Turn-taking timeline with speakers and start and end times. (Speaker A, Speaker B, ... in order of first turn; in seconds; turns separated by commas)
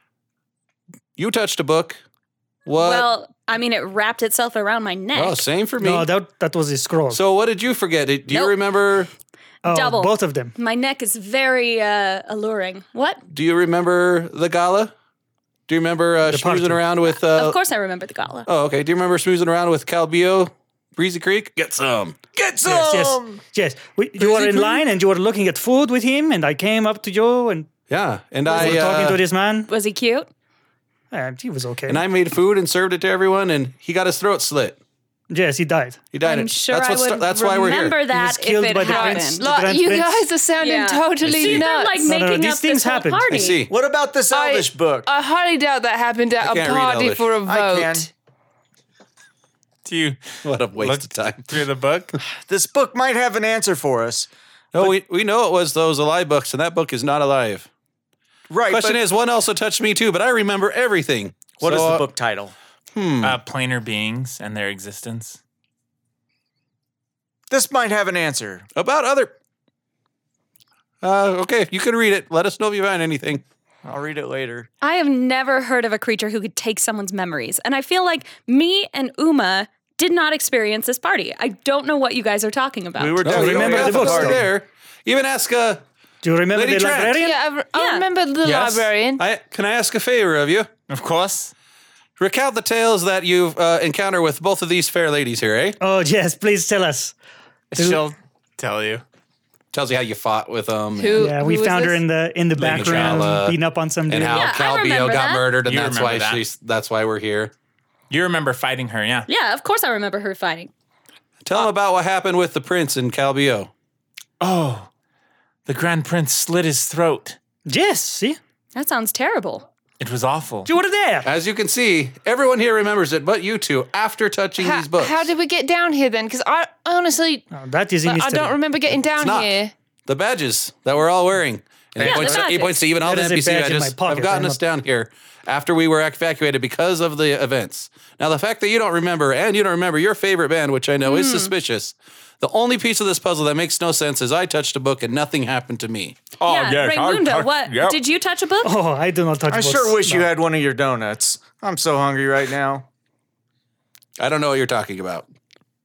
Speaker A: 1.2-2.0, Speaker A: 2.6-3.1, Speaker B: 2.7-5.5, Speaker A: 5.1-6.1, Speaker C: 5.8-7.2, Speaker A: 7.1-9.1, Speaker B: 8.3-8.6, Speaker C: 9.6-10.5, Speaker B: 9.7-13.2, Speaker A: 13.3-14.9, Speaker A: 15.7-17.6, Speaker C: 16.2-16.8, Speaker B: 17.1-18.5, Speaker A: 18.5-22.2, Speaker D: 22.3-23.4, Speaker C: 22.6-27.7, Speaker D: 24.2-24.8, Speaker A: 27.9-29.2, Speaker C: 28.5-29.7, Speaker B: 29.7-30.3, Speaker C: 31.1-32.0, Speaker A: 31.9-34.8, Speaker C: 35.3-36.0, Speaker A: 36.1-38.0, Speaker B: 36.2-39.4, Speaker C: 38.0-40.2, Speaker E: 38.8-42.1, Speaker B: 40.6-43.6, Speaker A: 41.2-41.6, Speaker C: 42.0-43.4, Speaker A: 43.3-43.7, Speaker D: 43.7-45.1, Speaker E: 44.3-48.1, Speaker A: 46.4-47.3, Speaker D: 47.4-48.1, Speaker F: 49.8-52.2, Speaker A: 50.4-51.6, Speaker D: 52.4-54.3, Speaker A: 54.7-57.7, Speaker D: 58.5-59.0, Speaker A: 58.7-62.0, Speaker D: 61.6-62.5, Speaker A: 62.9-63.4, Speaker F: 63.2-65.4, Speaker D: 67.5-68.7, Speaker A: 68.7-69.3, Speaker A: 71.0-73.4, Speaker D: 73.8-74.7, Speaker B: 74.8-83.2, Speaker D: 83.0-84.4, Speaker A: 83.2-85.8, Speaker C: 83.2-84.5, Speaker C: 86.2-87.4, Speaker A: 86.5-87.2, Speaker E: 87.2-89.2, Speaker B: 87.7-88.0, Speaker A: 88.4-90.7, Speaker F: 90.9-91.5, Speaker A: 92.2-95.8, Speaker C: 95.8-97.1, Speaker F: 97.7-99.0, Speaker C: 97.7-98.0, Speaker A: 99.7-101.3, Speaker E: 101.0-102.0, Speaker C: 101.1-104.5, Speaker A: 102.6-103.6, Speaker F: 102.6-103.3, Speaker A: 104.1-107.5, Speaker B: 104.3-105.5, Speaker F: 105.6-106.4, Speaker F: 108.1-109.3, Speaker B: 109.3-110.7, Speaker A: 111.4-113.7, Speaker F: 114.4-114.9, Speaker F: 115.7-117.4, Speaker C: 117.7-118.4, Speaker B: 118.7-119.7, Speaker F: 120.0-120.7, Speaker C: 120.7-121.3, Speaker A: 121.2-125.3, Speaker E: 124.6-127.5, Speaker C: 127.5-128.6, Speaker E: 128.0-129.7, Speaker A: 129.2-129.5, Speaker A: 130.1-146.2, Speaker B: 132.0-132.8, Speaker C: 132.9-134.6, Speaker B: 141.0-141.5, Speaker F: 146.4-148.0, Speaker B: 146.4-148.8, Speaker C: 148.6-150.3, Speaker D: 149.5-152.8, Speaker A: 154.2-155.3